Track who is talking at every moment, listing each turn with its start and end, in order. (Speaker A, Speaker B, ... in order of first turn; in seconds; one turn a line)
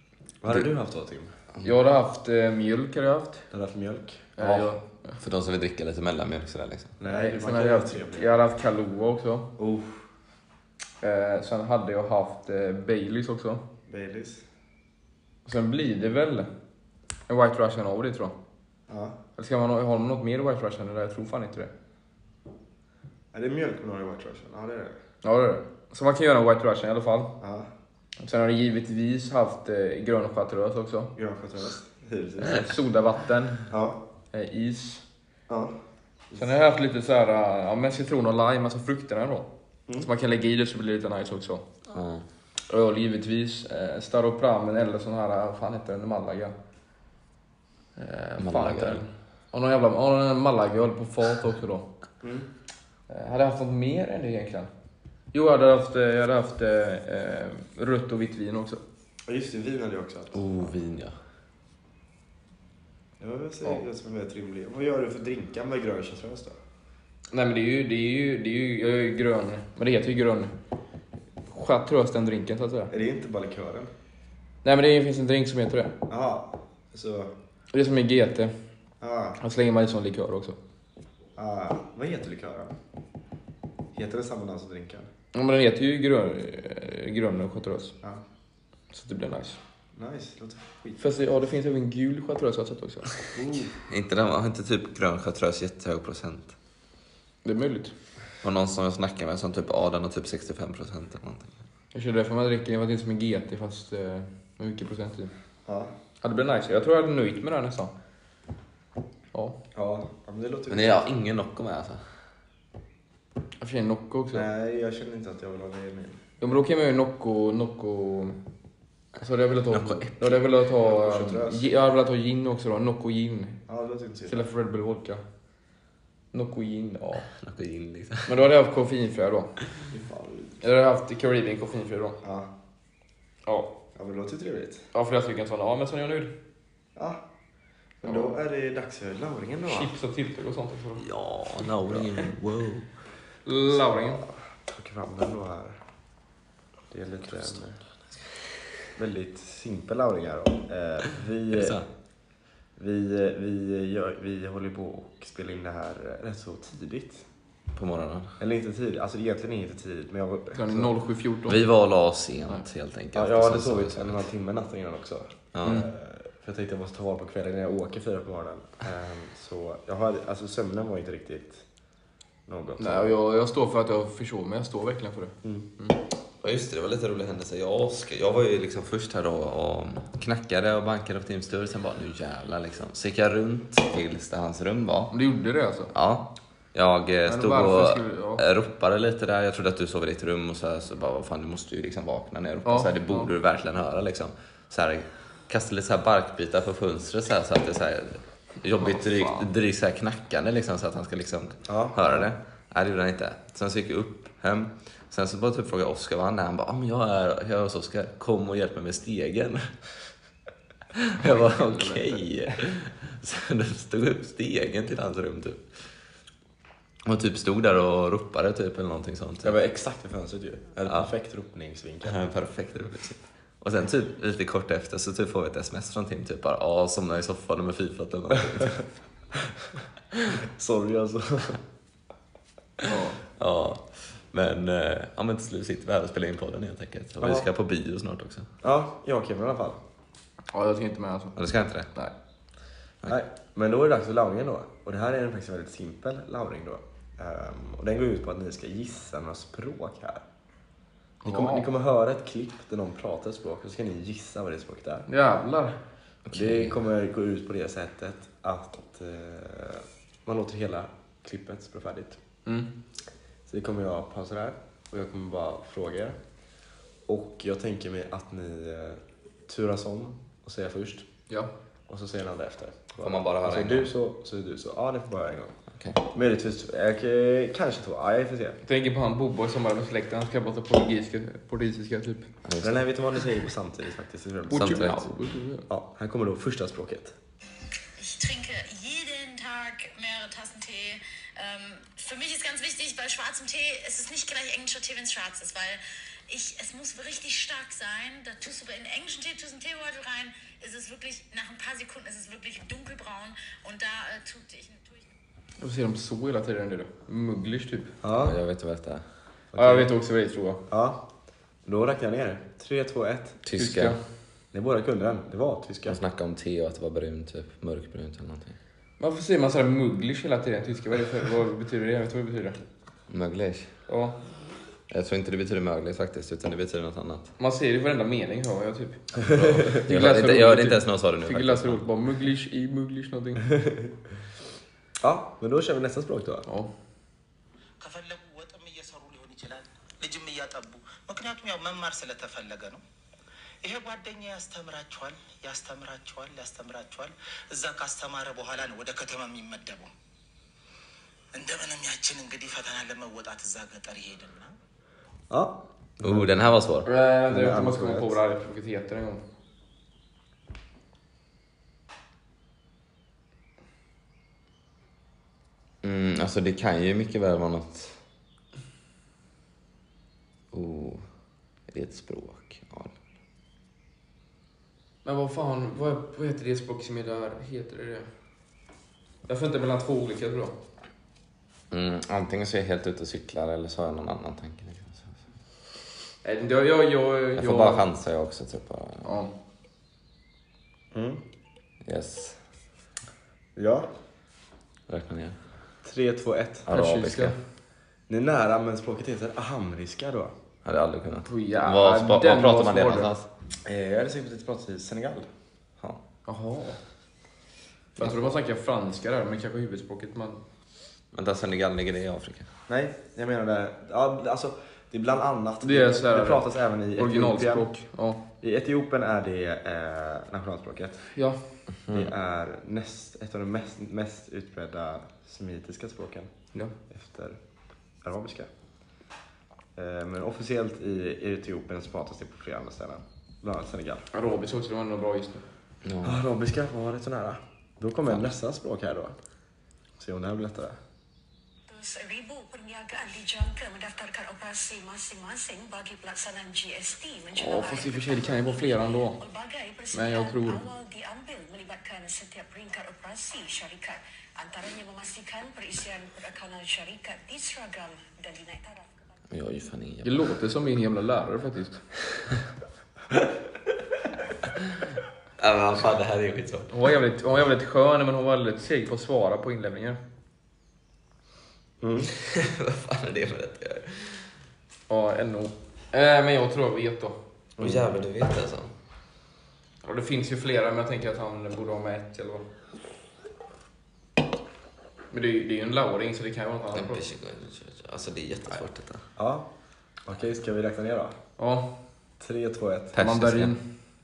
Speaker A: 0.4-1.3
Speaker B: 1.6-3.5
Speaker A: 3.5-4.3
Speaker B: 4.4-5.2
Speaker C: 4.4-4.7
Speaker C: 5.2-7.0
Speaker A: 7.0-8.3
Speaker B: 7.0-9.5
Speaker A: 9.6-10.0
Speaker B: 11.0-13.6
Speaker A: 13.9-14.4
Speaker B: 15.4-16.5
Speaker B: 17.3-18.3
Speaker A: 18.9-19.2
Speaker B: 19.4-21.7
Speaker A: 23.3-25.0
Speaker B: 25.2-27.3
Speaker A: 27.4-27.7
Speaker B: 28.2-31.1
Speaker A: 31.1-32.7
Speaker B: 32.4-33.7
Speaker A: 33.7-34.0
Speaker B: 34.3-35.0
Speaker A: 35.5-35.8
Speaker B: 36.4-41.6
Speaker C: 41.9-42.2
Speaker B: 42.7-46.5
Speaker B: 48.0-51.9
Speaker C: 48.4-49.0
Speaker A: 52.2-52.5
Speaker B: 53.1-54.7
Speaker B: 55.3-58.8
Speaker A: 59.3-60.4
Speaker C: 60.3-61.1
Speaker A: 63.2-66.6
Speaker B: 67.3-70.5
Speaker B: 71.5-72.9
Speaker A: 72.9-73.9
Speaker B: 74.6-76.0
Speaker A: 76.1-77.3
Speaker B: 77.7-78.5
Speaker A: 79.0-79.4
Speaker B: 79.4-80.5
Speaker A: 81.4-82.7
Speaker A: 83.9-85.1
Speaker B: 85.3-88.0
Speaker B: 88.9-89.6
Speaker A: 89.9-91.0
Speaker B: 91.0-93.3
Speaker A: 93.3-93.7
Speaker C: 93.9-96.5
Speaker B: 97.4-97.9
Speaker C: 98.4-101.6
Speaker B: 101.9-105.3
Speaker A: 105.7-105.9
Speaker B: 106.2-107.9
Speaker B: 109.3-109.6
Speaker A: 109.7-111.0
Speaker C: 110.7-112.0
Speaker B: 113.6-114.5
Speaker A: 114.3-116.2
Speaker B: 116.4-118.4
Speaker B: 119.2-123.6
Speaker C: 119.7-120.1
Speaker A: 120.2-121.7
Speaker A: 123.7-124.5
Speaker B: 124.3-125.2
Speaker B: 126.3-127.3
Speaker C: 127.3-128.4
Speaker B: 128.2-129.6
Speaker A: 129.9-130.6
Speaker B: 130.6-132.2
Speaker A: 132.2-132.5
Speaker B: 133.4-133.8
Speaker A: 133.9-134.8
Speaker B: 134.9-136.3
Speaker A: 136.9-137.2
Speaker A: 138.0-139.9
Speaker B: 138.0-138.3
Speaker B: 139.7-141.1
Speaker C: 141.0-142.9
Speaker B: 143.4-144.2
Speaker A: 144.6-145.8
Speaker A: 146.9-147.8
Speaker A: 148.9-151.8
Speaker C: 151.5-151.9
Speaker A: 152.8-157.2
Speaker C: 157.7-158.4
Speaker A: 158.4-160.9
Speaker B: 160.5-161.6
Speaker C: 161.4-164.2
Speaker A: 163.1-171.6
Speaker C: 165.5-165.9
Speaker A: 172.5-173.1
Speaker B: 172.8-176.0
Speaker C: 176.4-185.1
Speaker B: 185.1-185.9
Speaker C: 185.9-209.8
Speaker B: 187.2-188.4
Speaker B: 192.6-193.3
Speaker B: 198.8-199.5
Speaker A: 201.7-202.0
Speaker C: 210.9-215.9
Speaker B: 211.2-212.2
Speaker C: 217.0-219.6
Speaker A: 219.4-222.2
Speaker C: 220.8-221.1
Speaker C: 222.0-228.9
Speaker A: 230.5-231.6
Speaker B: 232.8-233.2
Speaker C: 233.3-238.5
Speaker A: 237.2-237.5
Speaker A: 238.6-239.8
Speaker B: 240.5-241.4
Speaker C: 241.3-241.9
Speaker A: 243.1-250.2
Speaker B: 251.2-251.7
Speaker A: 251.2-255.1
Speaker B: 255.1-255.8
Speaker C: 256.2-256.8
Speaker A: 256.3-262.2
Speaker B: 262.4-262.7
Speaker A: 263.5-266.2
Speaker A: 267.1-271.1
Speaker A: 271.9-278.6
Speaker C: 273.0-273.9
Speaker C: 275.7-276.0
Speaker B: 278.6-282.3
Speaker C: 282.4-282.9
Speaker A: 282.6-284.9
Speaker B: 284.5-285.6
Speaker C: 284.5-285.1
Speaker A: 285.7-287.1
Speaker D: 288.0-305.1
Speaker B: 305.6-307.9
Speaker A: 308.0-308.4
Speaker C: 308.1-309.0
Speaker A: 309.5-309.9
Speaker B: 309.6-310.6
Speaker A: 310.7-311.0
Speaker A: 311.6-313.4
Speaker C: 313.4-314.0
Speaker B: 313.6-314.0
Speaker A: 314.5-316.0
Speaker C: 315.9-318.6
Speaker B: 319.0-322.6
Speaker C: 323.1-323.7
Speaker B: 323.9-324.2
Speaker C: 324.9-327.3
Speaker B: 327.4-333.6
Speaker C: 329.3-331.8
Speaker A: 335.0-336.4
Speaker E: 337.8-342.8
Speaker E: 343.6-349.9
Speaker E: 351.3-354.5
Speaker A: 355.3-356.3
Speaker C: 356.0-356.9
Speaker B: 356.8-359.2
Speaker A: 357.3-358.1
Speaker C: 365.8-368.0
Speaker C: 370.5-371.1
Speaker C: 371.7-372.9
Speaker B: 375.0-378.1
Speaker B: 379.3-380.6
Speaker C: 381.7-385.2
Speaker B: 386.2-387.8
Speaker C: 387.4-389.1
Speaker B: 389.0-389.3
Speaker A: 390.9-391.2
Speaker C: 391.8-392.4
Speaker A: 393.6-393.9
Speaker C: 394.9-395.4
Speaker A: 395.8-396.7
Speaker C: 396.7-397.3
Speaker B: 396.7-397.4
Speaker A: 398.1-400.3
Speaker C: 400.6-403.3
Speaker B: 401.2-403.1
Speaker A: 403.6-405.3
Speaker B: 406.2-406.8
Speaker B: 408.0-410.4
Speaker C: 411.1-412.5
Speaker A: 412.7-417.7
Speaker B: 415.6-418.2
Speaker A: 418.4-421.1
Speaker B: 421.1-421.4
Speaker A: 421.9-426.3
Speaker A: 426.9-427.4
Speaker A: 428.0-428.5
Speaker A: 429.8-434.1
Speaker B: 434.1-435.4
Speaker C: 435.8-436.2
Speaker A: 436.0-439.2
Speaker A: 440.0-440.8
Speaker F: 441.7-459.1
Speaker B: 447.4-449.2
Speaker B: 449.9-450.6
Speaker C: 459.3-460.3
Speaker B: 460.0-461.9
Speaker C: 465.4-466.7
Speaker B: 466.7-470.0
Speaker A: 471.8-472.1
Speaker C: 472.1-474.3
Speaker B: 474.9-477.2
Speaker A: 477.6-477.8
Speaker C: 477.6-478.7
Speaker B: 479.8-482.5
Speaker B: 485.1-487.1
Speaker C: 486.7-489.1
Speaker A: 489.1-489.5
Speaker A: 490.0-491.2
Speaker B: 491.4-491.8
Speaker A: 492.2-492.9
Speaker C: 492.9-493.5
Speaker B: 492.9-493.6